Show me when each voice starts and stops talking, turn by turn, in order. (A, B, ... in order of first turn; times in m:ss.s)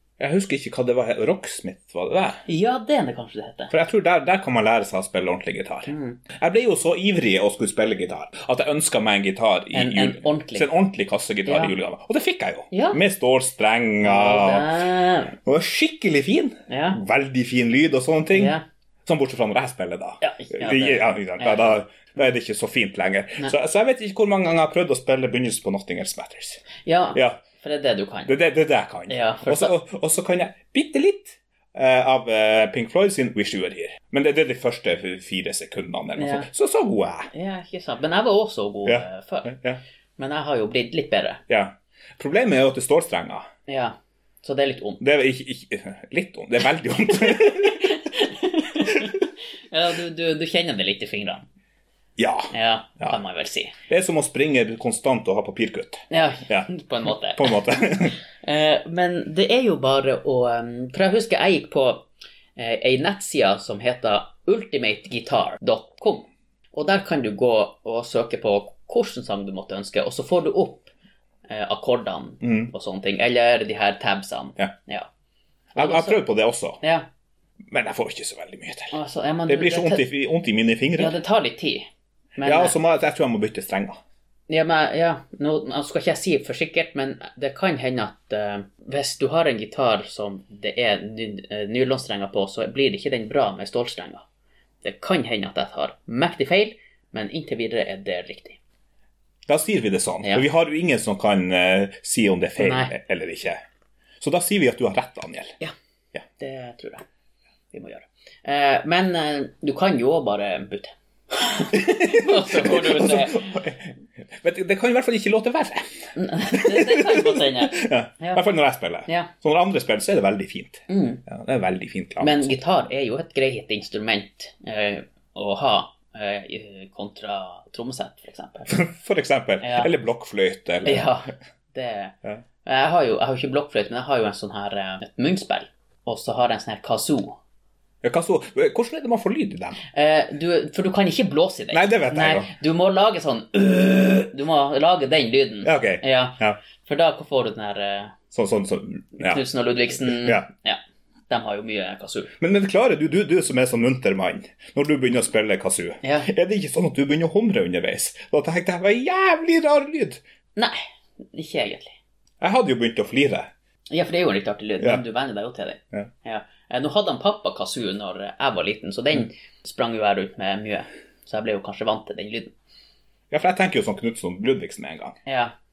0:00.2-0:02.4 A
0:02.5-0:03.7 B
0:03.7-0:14.8 A
0:05.9-0:06.2 B
0:09.7-0:10.7 B
0:11.4-0:11.7 B
0:12.7-0:13.0 B
0:14.0-0:15.4 B
0:15.4-0:27.4 A
0:16.7-0:17.0 B
0:18.3-0:18.6 B
0:20.2-0:21.8 B
0:26.8-0:28.3 B
0:28.3-0:37.3 A
0:29.1-0:29.7 B
0:36.2-0:36.5 B
0:37.3-0:39.6 B
0:38.8-0:39.8 A
0:40.2-0:41.4 B
0:41.5-0:43.5 A
0:43.7-0:45.0 B
0:45.0-0:48.0 A
0:47.2-0:51.4 B
0:48.8-0:49.1 A
0:52.2-0:53.2 A
0:52.5-0:53.8 B
0:53.9-0:56.7 A
0:56.1-0:57.6 B
0:57.3-0:58.2 A
0:58.4-1:10.9 B
1:11.5-1:15.1 B
1:12.4-1:12.7 A
1:15.7-1:16.2 B
1:15.8-1:16.8 A
1:16.8-1:17.1 B
1:17.7-1:18.9 A
1:18.9-1:20.0 B
1:19.5-1:21.2 A
1:21.0-1:22.7 B
1:22.4-1:24.0 A
1:24.5-1:34.2 B
1:34.8-1:38.6 B
1:39.5-1:43.6 A
1:42.6-1:42.9 B
1:44.2-1:45.6 A
1:46.4-1:47.0 B
1:47.7-1:53.6 B
1:51.7-1:55.9 A
1:56.1-1:58.4 B
1:56.5-2:02.5 A
2:00.9-2:01.2 B
2:02.2-2:08.7 B
2:08.7-2:11.1 A
2:09.6-2:09.9 B
2:10.8-2:17.4 B
2:18.0-2:19.8 A
2:19.9-2:28.2 B
2:21.7-2:22.5 A
2:25.6-2:26.6 A
2:28.3-2:29.4 A
2:29.2-2:32.3 B
2:30.0-2:30.4 A
2:32.4-2:40.2 A
2:36.0-2:36.3 B
2:41.3-2:42.0 B
2:42.4-2:43.5 A
2:43.9-2:52.5 B
2:53.3-2:55.2 A
2:55.2-2:55.5 B